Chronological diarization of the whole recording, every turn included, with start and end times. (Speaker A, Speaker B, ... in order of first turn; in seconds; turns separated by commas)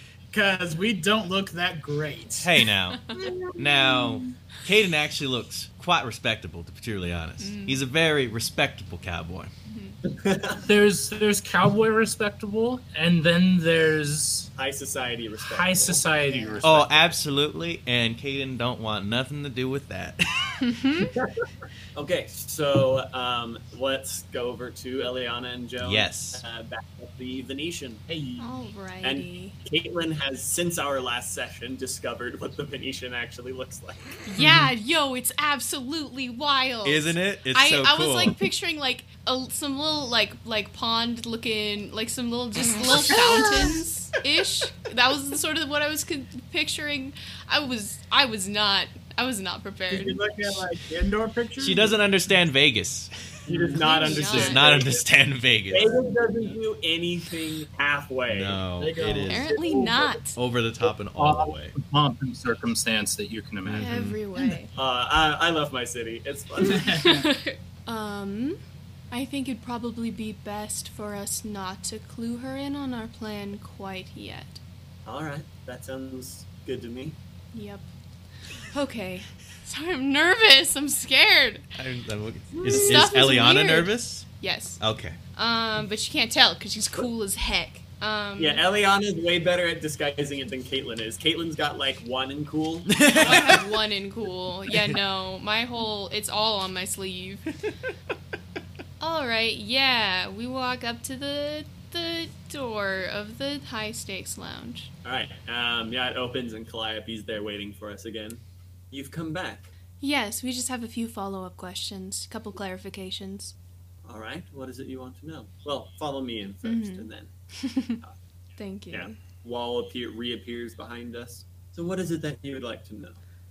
Speaker A: 0.3-2.5, Speaker B: 2.4-9.5, Speaker C: 2.9-3.3, Speaker A: 3.2-4.3, Speaker C: 7.4-7.8, Speaker C: 9.7-10.0, Speaker D: 10.0-10.6, Speaker E: 10.6-14.5, Speaker D: 14.6-16.1, Speaker E: 15.4-17.1, Speaker A: 16.2-16.6, Speaker B: 16.6-20.6, Speaker C: 20.6-21.1, Speaker D: 21.2-28.0, Speaker B: 25.8-26.4, Speaker A: 28.1-28.5, Speaker C: 28.4-29.6, Speaker D: 29.0-34.2, Speaker C: 34.2-50.2, Speaker B: 36.8-38.4, Speaker D: 49.9-50.6, Speaker A: 50.0-52.0, Speaker B: 51.6-53.2, Speaker A: 53.5-54.1, Speaker D: 53.5-55.0, Speaker C: 53.8-54.8, Speaker B: 54.1-55.9, Speaker D: 55.7-58.6, Speaker A: 55.8-56.3, Speaker B: 58.3-59.5, Speaker A: 58.8-60.2, Speaker C: 59.3-60.4, Speaker B: 60.3-61.8, Speaker E: 61.1-64.0, Speaker B: 63.6-64.2, Speaker C: 63.7-64.7, Speaker D: 64.7-67.0, Speaker A: 66.7-67.3, Speaker C: 66.8-68.6, Speaker C: 69.1-74.6, Speaker D: 75.0-77.2, Speaker C: 77.5-77.9, Speaker C: 78.6-81.7, Speaker B: 81.8-84.3, Speaker C: 82.6-84.8, Speaker B: 84.8-85.2, Speaker C: 85.3-88.6, Speaker D: 88.4-93.4, Speaker B: 92.9-93.7, Speaker C: 93.1-97.5, Speaker C: 99.0-104.9, Speaker D: 105.0-109.7, Speaker C: 110.0-113.5, Speaker D: 114.0-117.3, Speaker C: 116.6-118.0, Speaker C: 118.6-119.2, Speaker D: 118.9-123.2